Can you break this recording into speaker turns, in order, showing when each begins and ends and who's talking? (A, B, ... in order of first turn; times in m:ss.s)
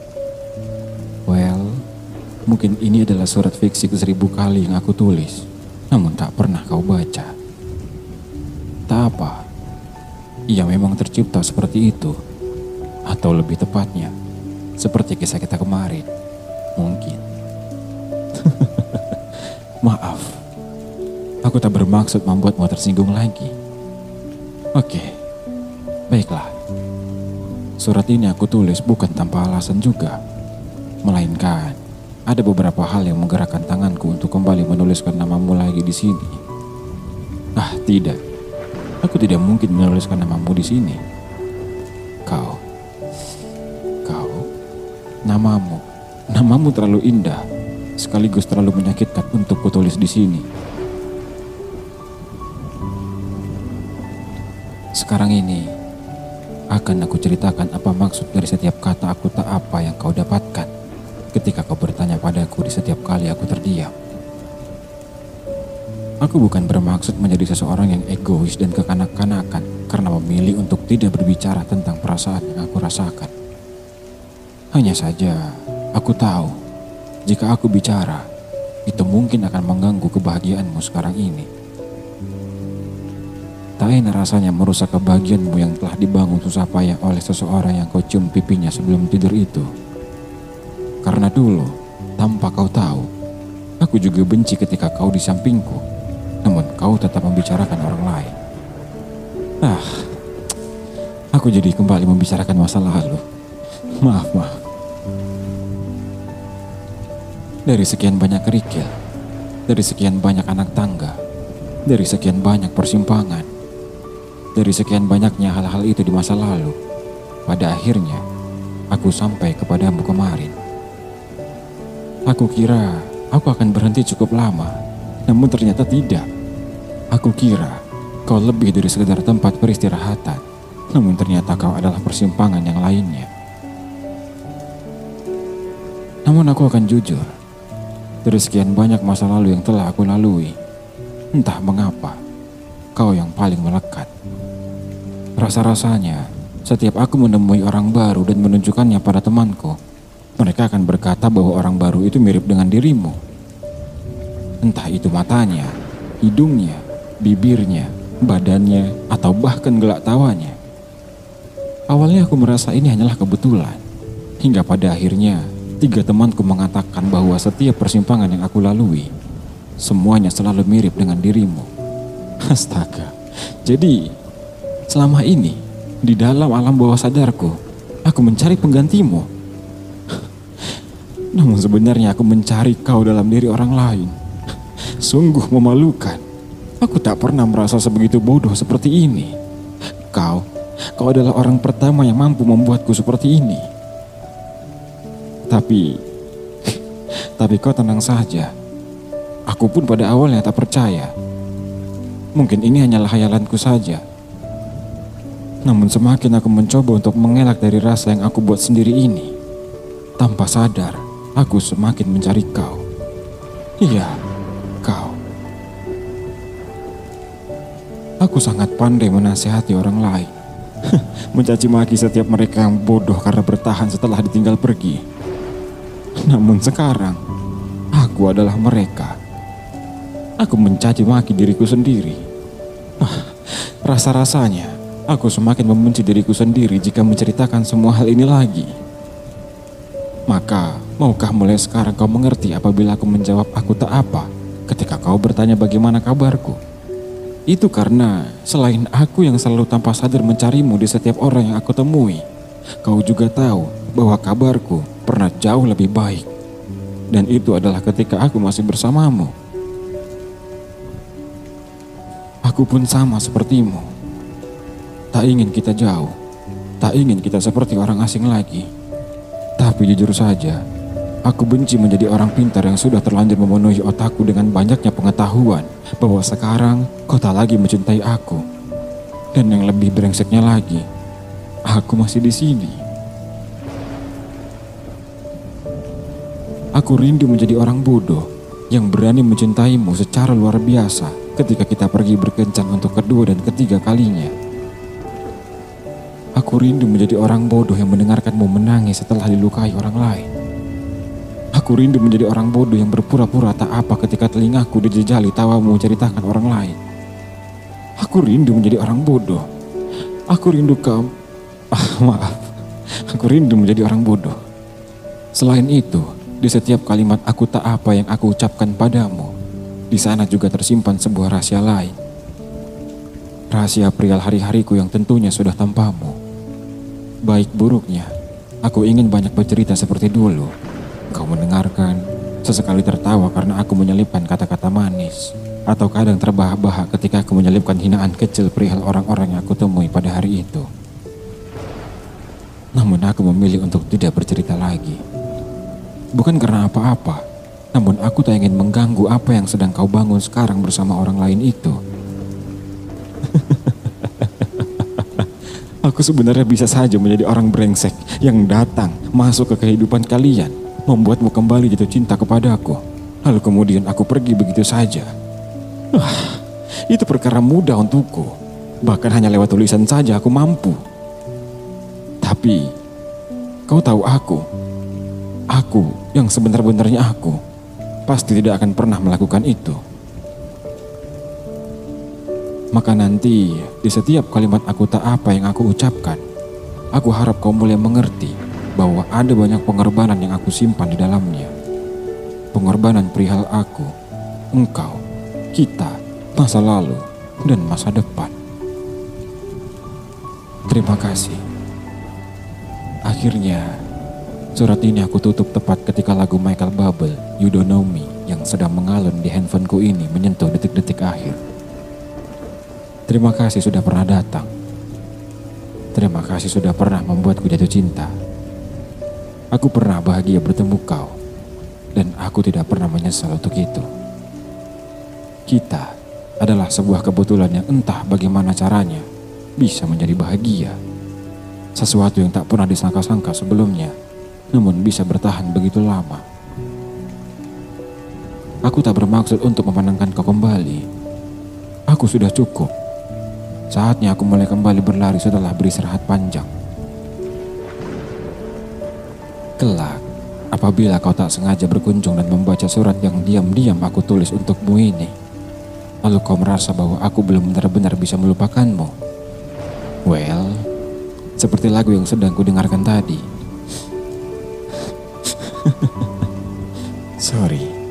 0:01.3-0:01.8 A
0:02.5-0:07.3 A
0:08.9-0:09.4 A
0:10.5-0:12.2 A
0:13.1-0:14.1 A
0:14.8-0:16.1 A
0:16.8-0:17.2 A
0:18.4-0:20.4 A
0:21.4-0:23.5 A
0:24.8-0:25.2 A
0:26.1-0:26.5 A
0:27.8-0:30.2 A
0:31.0-0:36.4 A
0:37.6-0:38.2 A
0:39.0-0:41.0 A
0:42.3-0:42.6 A
0:44.0-0:44.5 A
0:45.3-0:47.4 A
0:48.0-0:50.5 A
0:55.0-0:55.7 A
0:56.7-1:00.7 A
1:01.3-1:03.9 A
1:06.2-1:13.3 A
1:14.7-1:16.6 A
1:17.3-1:18.2 A
1:18.9-1:21.5 A
1:23.8-1:29.7 A
1:31.0-1:33.1 A
1:33.8-1:35.8 A
1:36.4-1:38.3 A
1:39.6-1:40.2 A
1:41.3-1:43.2 A
1:44.0-1:44.6 A
1:47.7-1:48.9 A
1:49.7-1:51.2 A
1:51.9-1:53.5 A
1:54.6-1:56.8 A
1:57.5-1:58.2 A
1:58.9-2:00.5 A
2:02.3-2:06.3 A
2:07.1-2:13.3 A
2:16.3-2:17.3 A
2:18.2-2:20.6 A
2:21.3-2:22.2 A
2:23.0-2:24.1 A
2:25.4-2:29.8 A
2:30.4-2:33.2 A
2:34.6-2:40.6 A
2:41.9-2:43.8 A
2:44.4-2:49.1 A
2:49.8-2:51.7 A
2:52.5-2:54.1 A
2:54.9-2:59.3 A
3:00.1-3:00.8 A
3:01.3-3:04.1 A
3:04.8-3:06.2 A
3:06.8-3:09.4 A
3:10.1-3:13.7 A
3:15.5-3:16.0 A
3:16.7-3:18.5 A
3:19.5-3:21.1 A
3:22.4-3:24.0 A
3:25.6-3:29.3 A
3:30.2-3:32.8 A
3:33.8-3:34.2 A
3:34.8-3:35.2 A
3:38.2-3:40.3 A
3:40.8-3:45.0 A
3:46.2-3:47.2 A
3:47.9-3:49.2 A
3:50.4-3:52.2 A
3:53.0-3:58.7 A
4:00.3-4:06.6 A
4:07.5-4:12.2 A
4:12.8-4:16.3 A
4:17.1-4:19.3 A
4:22.5-4:23.9 A
4:25.1-4:26.1 A
4:26.8-4:28.7 A
4:29.6-4:30.6 A
4:31.3-4:38.4 A
4:39.4-4:40.9 A
4:41.7-4:42.8 A
4:46.8-4:54.3 A
4:56.4-5:00.3 A
5:01.6-5:06.8 A
5:08.0-5:09.4 A
5:10.3-5:11.1 A
5:11.7-5:12.5 A
5:13.1-5:14.4 A
5:15.4-5:19.3 A
5:19.9-5:21.9 A
5:23.5-5:26.2 A
5:27.3-5:28.1 A
5:28.6-5:30.5 A
5:31.1-5:40.7 A
5:42.8-5:45.0 A
5:46.2-5:47.2 A
5:47.7-5:51.8 A
5:53.2-6:05.1 A
6:05.9-6:08.3 A
6:08.8-6:10.8 A
6:12.2-6:12.7 A
6:13.7-6:14.4 A
6:15.5-6:17.4 A
6:18.1-6:19.8 A
6:22.7-6:26.2 A
6:27.0-6:31.5 A
6:32.5-6:33.9 A
6:34.5-6:35.0 A
6:35.5-6:38.3 A
6:40.7-6:41.4 A
6:43.1-6:43.8 A
6:44.6-6:51.4 A
6:53.1-6:54.5 A
6:56.0-6:58.1 A
6:59.5-7:01.2 A
7:01.9-7:03.9 A
7:05.5-7:09.1 A
7:09.6-7:10.8 A
7:11.8-7:14.0 A
7:14.5-7:16.2 A
7:18.7-7:20.8 A
7:21.9-7:22.7 A
7:23.7-7:26.5 A
7:29.6-7:30.0 A
7:30.5-7:35.1 A
7:36.0-7:38.9 A
7:40.1-7:40.6 A
7:41.4-7:43.2 A
7:44.8-7:46.3 A
7:47.2-7:47.7 A